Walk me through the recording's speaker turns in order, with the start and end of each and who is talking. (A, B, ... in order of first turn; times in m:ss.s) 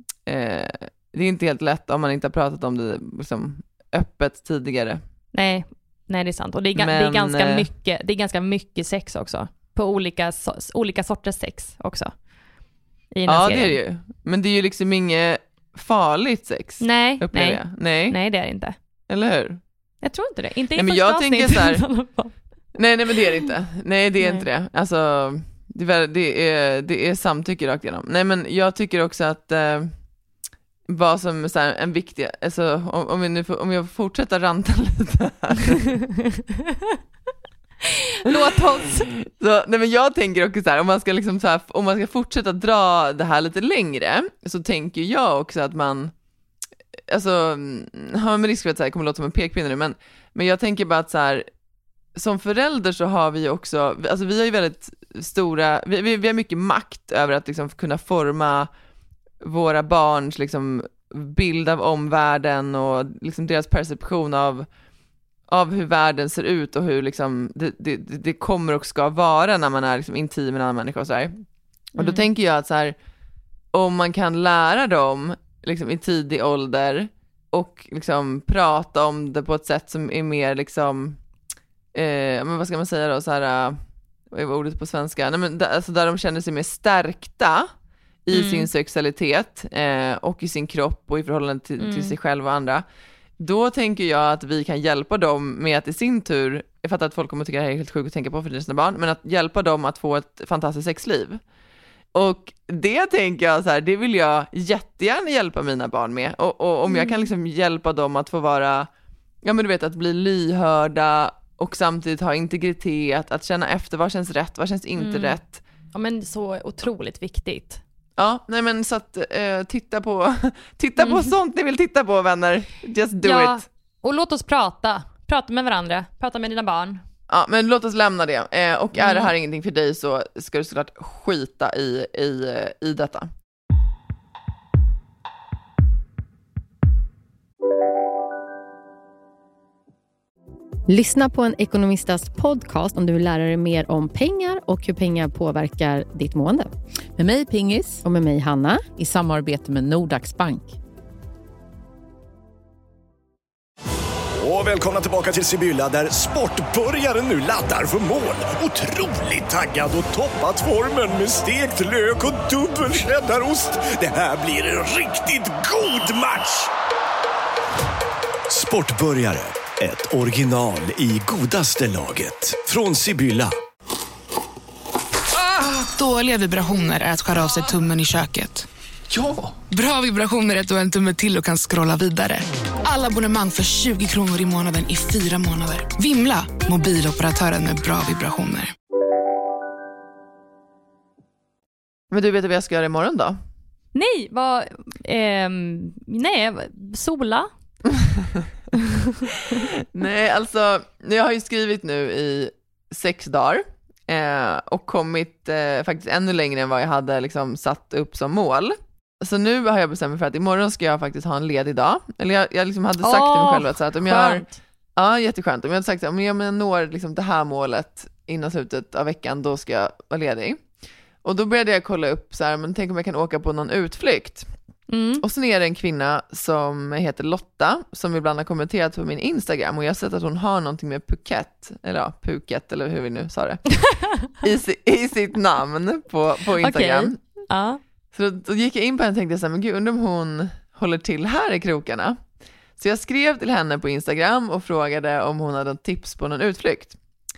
0:00.2-0:05.0 A
0:05.3-0:12.1 B
0:06.8-0:07.7 A
0:13.1-0:13.8 B
0:13.2-0:18.2 A
0:16.8-0:18.7 B
0:19.1-0:19.6 A
0:20.0-0:22.3 B
0:20.7-0:21.8 A
0:22.8-0:29.9 A
0:24.2-0:24.4 B
0:30.9-0:35.8 A
0:37.8-0:39.1 B
0:39.2-0:46.1 A
0:47.1-0:51.5 A
0:52.1-0:58.7 A
0:59.4-1:04.7 A
1:05.5-1:11.3 A
1:12.0-1:12.2 B
1:12.0-1:12.9 A
1:13.7-1:21.2 A
1:21.9-1:23.8 A
1:24.3-1:27.7 A
1:28.2-1:32.8 A
1:28.3-1:28.7 B
1:31.8-1:32.1 B
1:33.4-1:41.4 A
1:42.1-1:48.9 A
1:46.9-1:47.3 B
1:49.4-1:55.6 A
1:55.0-1:55.4 B
1:55.9-1:57.8 B
1:58.2-2:03.6 A
2:01.0-2:01.3 B
2:03.2-2:07.0 B
2:07.3-2:13.3 A
2:09.0-2:09.3 B
2:20.9-2:26.7 C
2:27.3-2:28.0 D
2:28.0-2:28.9 C
2:29.0-2:30.4 D
2:34.4-2:46.7 E
2:48.5-2:53.5 E
2:55.5-2:58.7 F
2:59.7-3:08.7 F
3:12.1-3:13.4 A
3:13.9-3:17.5 B
3:18.8-3:19.6 B
3:19.7-3:40.6 A
3:33.0-3:34.6 B
3:41.2-3:44.5 A
3:44.9-3:45.2 B
3:45.2-3:53.6 A
3:53.9-3:54.1 B
3:54.2-3:57.2 A
3:56.6-3:57.8 B
3:58.1-4:02.2 A
4:02.8-4:07.0 A